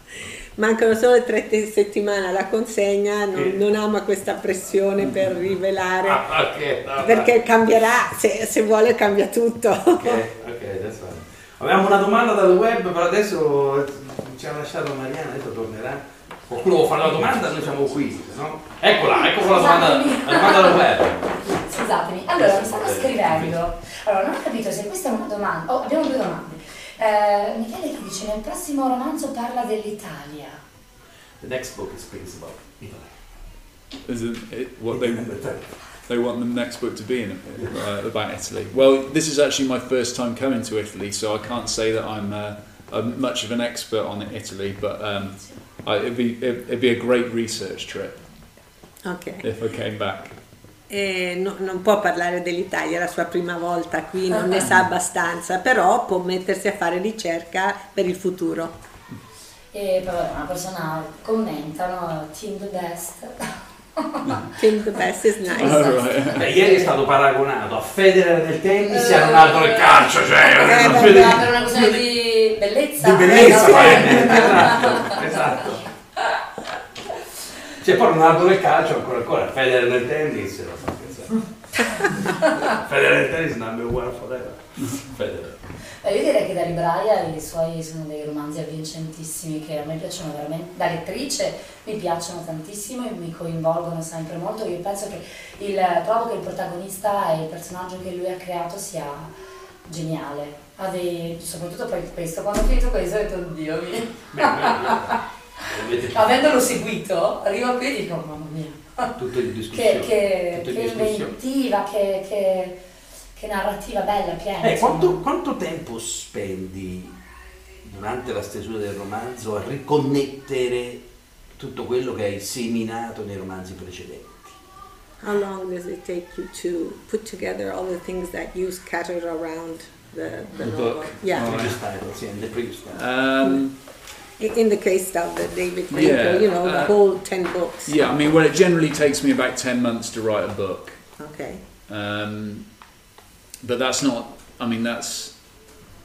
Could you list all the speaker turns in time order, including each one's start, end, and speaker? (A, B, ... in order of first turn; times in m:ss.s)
0:00.6-0:06.2 A
0:06.0-0:07.3 B
0:07.0-0:10.2 A
0:10.0-0:21.5 B
0:19.3-0:30.6 C
0:22.3-0:23.6 B
0:31.4-0:33.1 B
0:34.0-0:35.4 D
0:34.9-0:35.7 B
0:36.0-0:48.2 D
0:49.0-0:49.4 A
0:49.4-0:50.3 D
0:50.9-0:58.7 A
0:59.7-1:04.4 C
1:04.6-1:06.0 A
1:05.5-1:07.0 C
1:05.6-1:06.5 D
1:06.3-1:12.0 B
1:08.9-1:15.8 C
1:10.6-1:11.5 A
1:13.0-1:15.8 B
1:17.8-1:21.4 B
1:22.7-1:25.6 B
1:26.0-1:39.3 C
1:39.8-1:45.2 C
1:44.3-1:46.4 B
1:46.1-1:49.2 C
1:49.2-1:51.4 B
1:49.7-1:52.8 C
1:53.3-1:55.2 C
1:54.6-1:57.1 B
1:57.8-2:01.0 B
2:01.6-2:04.6 B
2:05.2-2:11.5 A
2:10.6-2:11.8 D
2:11.3-2:13.0 B
2:12.9-2:13.7 D
2:14.4-2:18.0 A
2:15.9-2:16.9 D
2:17.8-2:21.1 D
2:21.2-2:21.6 A
2:21.9-2:22.7 D
2:23.6-2:25.7 D